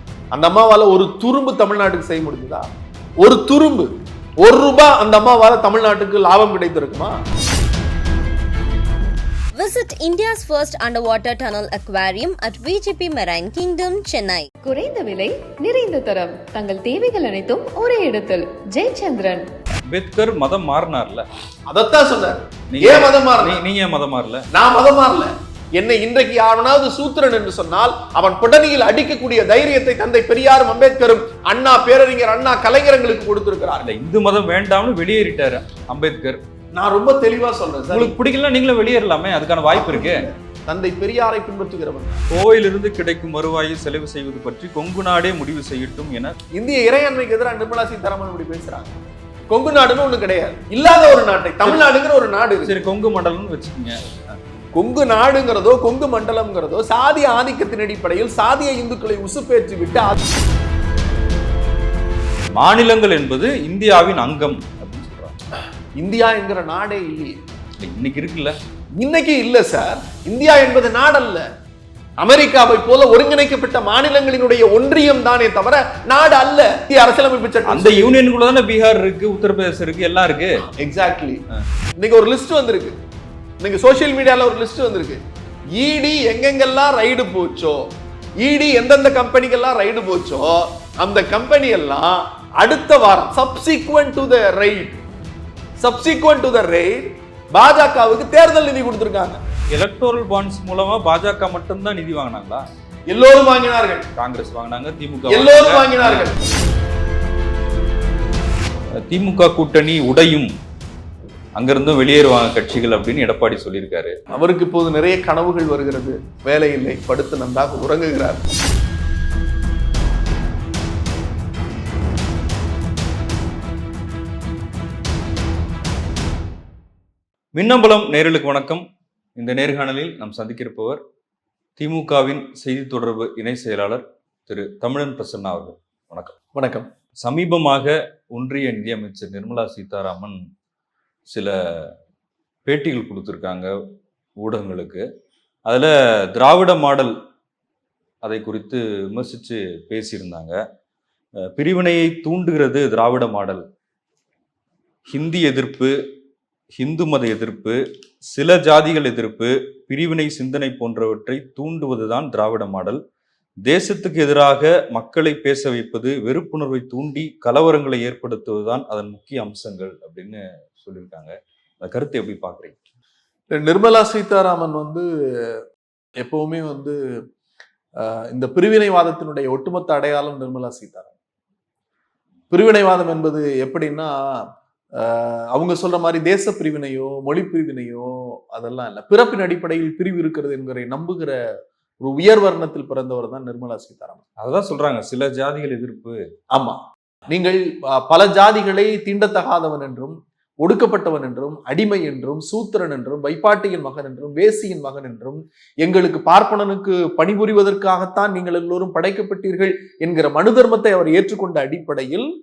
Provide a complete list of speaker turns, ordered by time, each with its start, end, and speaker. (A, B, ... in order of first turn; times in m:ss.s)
0:00.3-0:02.7 A
0:03.2-0:03.9 A
0:04.4-0:07.2 A
0:09.5-0:14.5 B
0:14.6-0:19.5 C
0:19.9-0:21.3 D
0:21.7-0:23.6 A
0:22.7-0:24.4 D
0:24.5-0:33.9 A
0:33.8-0:36.4 D
0:36.7-0:38.2 A
0:37.9-0:40.3 D
0:39.7-0:42.2 A
0:42.3-0:46.4 D
0:46.5-0:48.9 A
0:49.5-0:52.8 A
0:52.6-0:54.4 D
0:54.7-1:00.2 A
1:02.6-1:05.4 D
1:06.0-1:07.4 A
1:07.8-1:08.6 D
1:09.0-1:11.4 A
1:12.2-1:18.2 A
1:17.7-1:20.6 D
1:20.7-1:21.4 A
1:22.0-1:23.0 A
1:23.6-1:25.2 A
1:25.7-1:27.9 A
1:28.4-1:35.0 A
1:35.8-1:39.4 A
1:39.7-1:42.6 D
1:43.1-1:44.0 A
1:44.2-1:46.3 D
1:45.3-1:46.3 A
1:49.0-1:50.5 D
1:51.6-1:54.2 D
1:54.3-1:58.4 A
2:07.5-2:08.8 D
2:09.4-2:11.0 D
2:11.8-2:16.4 D
2:16.5-2:16.9 A
2:17.2-2:20.4 D
2:21.3-2:21.9 D
2:22.6-2:23.7 D
2:24.4-2:25.0 D
2:25.6-2:27.1 D
2:28.2-2:30.6 D
2:31.4-2:33.6 D
2:35.1-2:35.9 D
2:36.8-2:43.0 D
2:43.6-2:52.7 D
2:53.5-2:55.6 A
2:56.2-2:57.0 A
2:58.0-3:01.1 A
3:02.5-3:11.4 A
3:12.0-3:14.2 A
3:14.4-3:16.2 D
3:16.5-3:32.3 A